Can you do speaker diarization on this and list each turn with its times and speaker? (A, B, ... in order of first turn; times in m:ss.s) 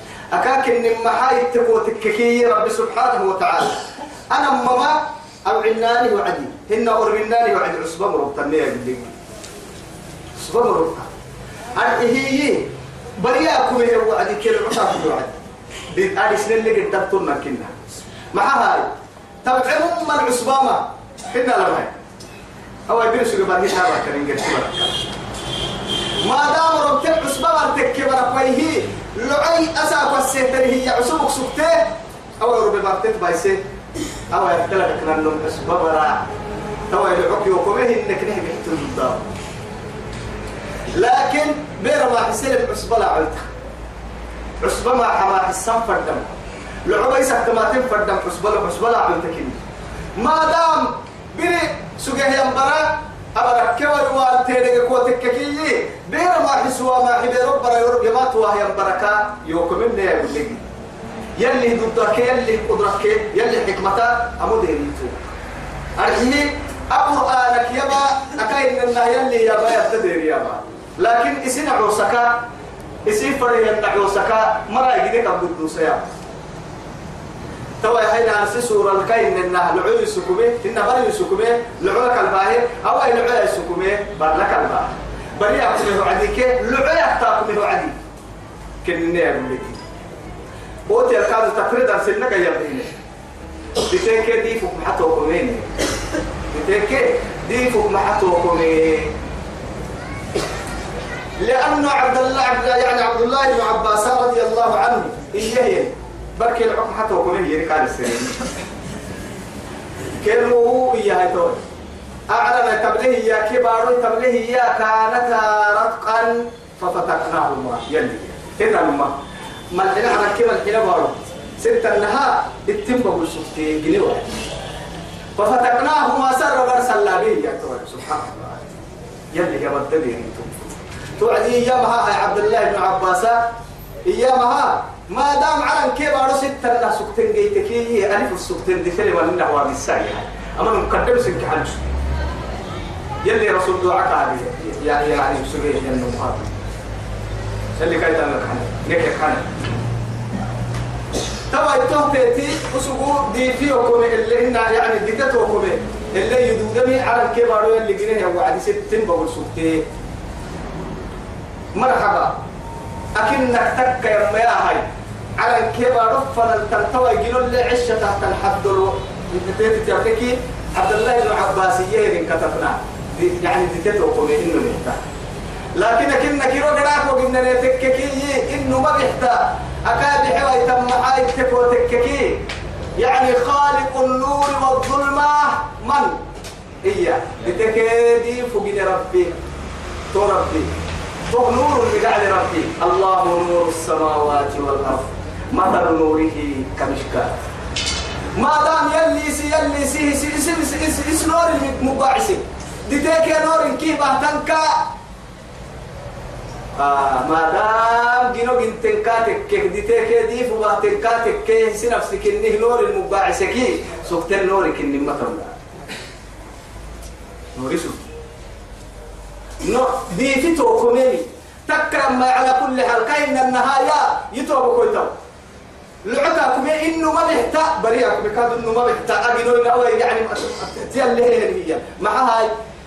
0:00.3-0:09.2 A
0:10.4-0:11.1 A
0:11.8-0:15.4 A
0:15.9-0:17.8 A
0:18.3-0:18.9 A
0:19.4-0:22.0 A
0:22.9-0:25.1 A
0:26.2-0:33.6 A
0:34.3-0:36.3 A
0:36.9-0:39.3 A
0:40.9-0:43.5 A
0:44.6-0:46.4 A
0:46.9-0:49.6 A
0:50.2-1:00.6 A
1:01.4-1:05.3 A
1:06.0-1:12.4 A
1:13.0-1:16.1 A
1:17.8-1:28.0 A
1:28.8-1:29.8 A
1:30.9-1:33.0 A
1:33.8-1:35.8 A
1:36.5-1:39.1 A
1:41.4-1:48.5 A
1:50.2-1:51.6 A
1:52.3-1:59.2 A
1:59.7-2:04.4 A
2:05.4-2:08.7 A
2:09.3-2:13.5 A
2:14.0-2:22.0 A
2:23.2-2:26.6 A
2:27.8-2:29.6 A
2:31.5-2:39.8 A
2:41.8-2:42.4 A
2:43.2-2:44.8 A
2:45.4-2:55.0 A
2:55.8-3:02.4 A
3:03.0-3:06.2 A
3:06.8-3:09.4 A
3:10.1-3:10.7 A
3:11.3-3:17.4 A
3:18.4-3:24.9 A
3:26.8-3:35.6 A
3:37.6-3:38.0 A
3:39.6-3:45.1 A
3:46.0-3:52.5 A